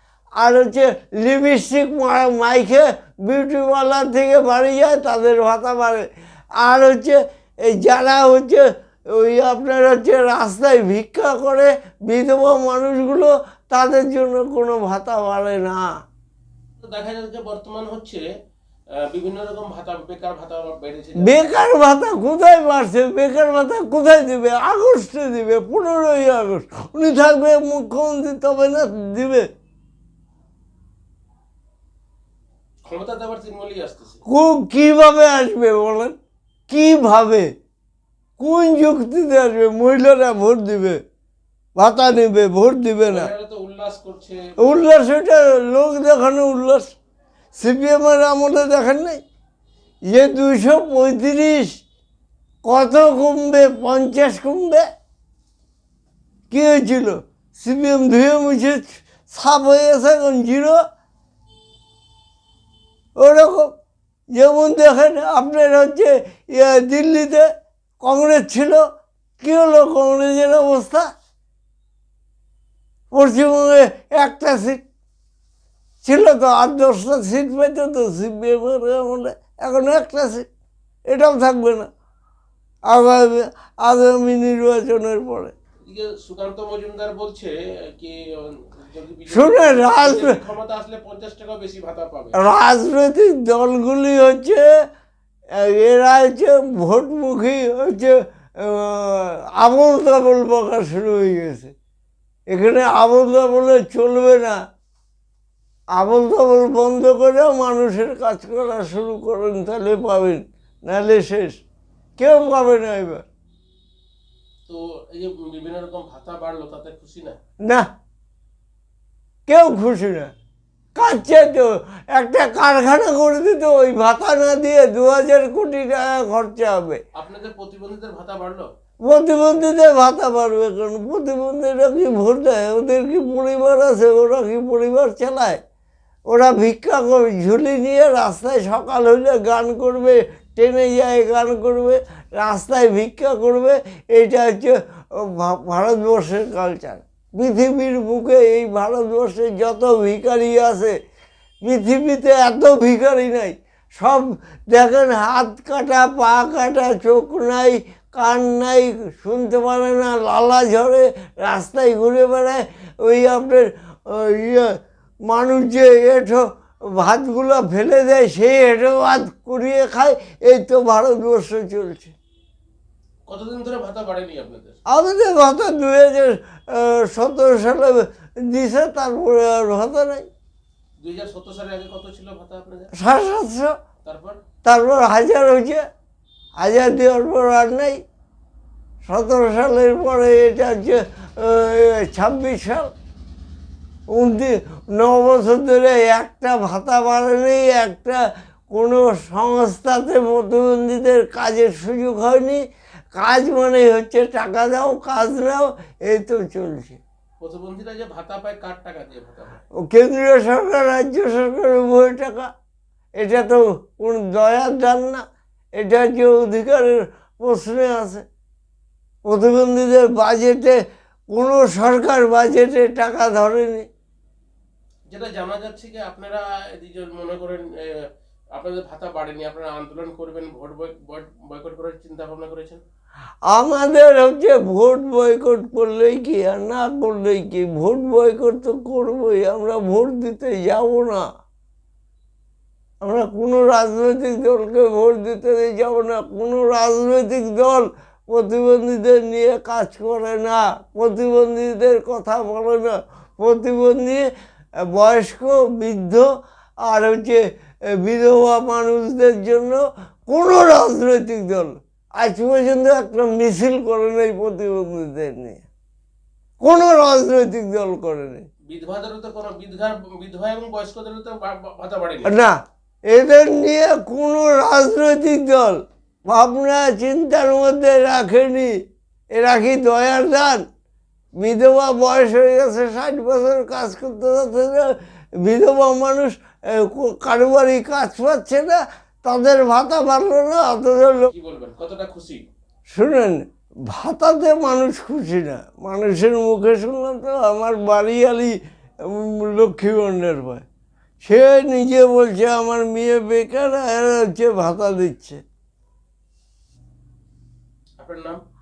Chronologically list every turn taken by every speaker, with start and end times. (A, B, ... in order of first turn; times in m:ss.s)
0:00.4-0:06.0 A
0:06.6-0:07.2 A
0:07.7-0:08.6 A
0:09.2-0:15.8 A
0:16.8-0:18.2 B
0:19.1-0:21.5 B
0:21.2-0:29.5 A
0:32.8-0:34.2 B
0:34.3-0:36.1 A
0:36.7-0:37.5 A
0:38.4-0:41.0 A
0:41.8-0:43.3 A
0:43.0-0:44.8 B
0:44.6-0:46.9 A
0:47.6-0:49.2 A
0:50.1-0:51.8 A
0:52.6-0:54.8 A
0:56.5-1:00.8 A
1:03.2-1:03.7 A
1:04.4-1:07.5 A
1:08.0-1:08.8 A
1:09.4-1:11.1 A
1:13.1-1:14.8 A
1:16.0-1:20.5 A
1:21.1-1:21.9 A
1:22.9-1:25.5 A
1:25.9-1:32.4 B
1:29.3-1:30.3 A
1:32.4-1:34.7 A
1:35.6-1:41.7 A
1:42.5-1:44.6 A
1:46.0-1:51.6 A
1:52.2-1:53.2 A
1:54.7-1:57.4 B
1:59.5-2:00.3 A
2:00.9-2:07.0 A
2:07.1-2:08.7 B
2:09.0-2:15.6 A
2:16.3-2:30.9 A
2:31.6-2:44.7 A
2:45.3-2:46.4 A
2:47.0-2:52.1 A
2:53.3-2:54.8 B
2:54.9-3:00.3 A
3:01.0-3:02.9 B
3:03.0-3:03.7 A
3:04.0-3:04.4 B
3:04.6-3:05.8 A
3:06.6-3:08.0 A
3:09.0-3:12.9 A
3:14.1-3:18.2 A
3:18.7-3:22.6 A
3:23.1-3:27.0 A
3:27.4-3:29.6 B
3:29.8-3:32.5 A
3:33.2-3:35.2 A
3:35.8-3:38.2 A
3:39.3-3:40.8 A
3:41.3-3:43.9 A
3:45.1-3:48.0 B
3:48.6-3:52.8 B
3:53.5-4:01.2 A
4:03.0-4:14.2 A
4:14.9-4:16.2 A
4:16.9-4:17.4 A
4:18.0-4:25.6 A
4:26.6-4:28.4 A
4:28.6-4:32.3 B
4:32.2-4:32.6 A
4:33.1-4:38.7 A
4:39.4-4:40.6 A
4:41.4-4:51.3 A
4:51.3-4:52.5 B
4:52.9-5:00.6 A
5:01.2-5:05.4 A
5:08.0-5:08.4 B